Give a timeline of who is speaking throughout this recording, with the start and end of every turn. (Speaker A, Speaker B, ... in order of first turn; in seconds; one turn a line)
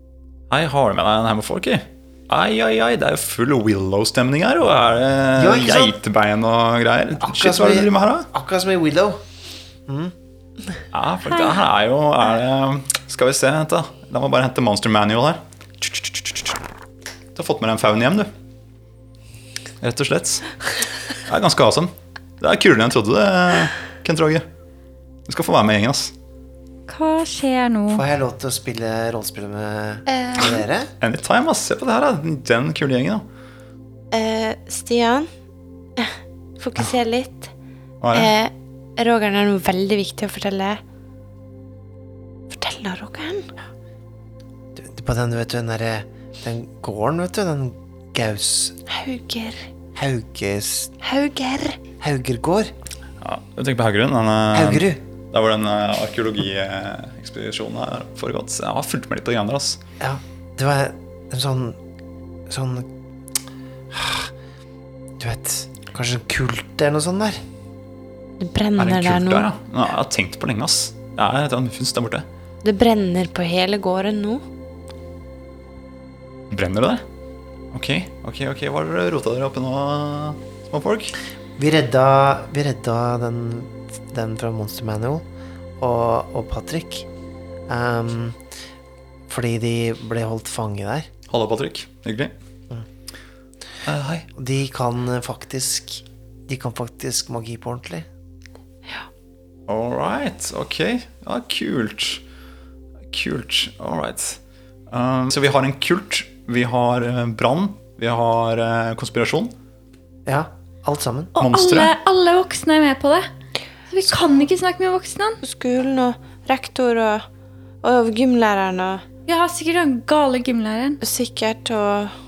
Speaker A: 0.5-8.3
Speaker B: 5.4-6.0
Speaker B: 7.2-9.2
Speaker B: 9.9-10.1
Speaker A: 10.9-16.6
Speaker A: 17.4-18.3
Speaker A: 19.8-20.5
Speaker A: 21.2-24.5
Speaker A: 25.3-26.1
Speaker C: 26.9-28.0
Speaker B: 27.9-30.9
Speaker D: 30.1-30.6
Speaker A: 31.0-33.2
Speaker D: 34.1-35.3
Speaker D: 36.0-37.5
Speaker A: 38.0-38.3
Speaker D: 38.1-40.8
Speaker D: 42.5-43.5
Speaker B: 44.8-48.8
Speaker D: 48.9-49.7
Speaker B: 50.0-51.0
Speaker D: 51.0-51.8
Speaker B: 52.0-52.7
Speaker A: 53.2-59.8
Speaker B: 54.5-55.0
Speaker B: 60.0-61.8
Speaker B: 62.5-62.9
Speaker B: 63.9-64.3
Speaker B: 65.2-67.4
Speaker D: 68.4-69.5
Speaker A: 68.8-72.3
Speaker D: 72.6-74.4
Speaker A: 76.5-77.0
Speaker A: 77.7-81.1
Speaker B: 81.6-85.3
Speaker B: 85.8-87.1
Speaker B: 87.7-88.4
Speaker B: 89.3-91.1
Speaker A: 91.3-92.3
Speaker A: 93.8-94.3
Speaker B: 94.3-98.1
Speaker A: 99.7-102.2
Speaker A: 103.1-104.4
Speaker A: 104.9-109.5
Speaker B: 110.3-111.3
Speaker C: 111.3-113.3
Speaker A: 111.4-111.9
Speaker C: 113.9-115.4
Speaker D: 115.4-117.3
Speaker D: 117.8-119.0
Speaker C: 119.3-121.0
Speaker D: 121.0-122.2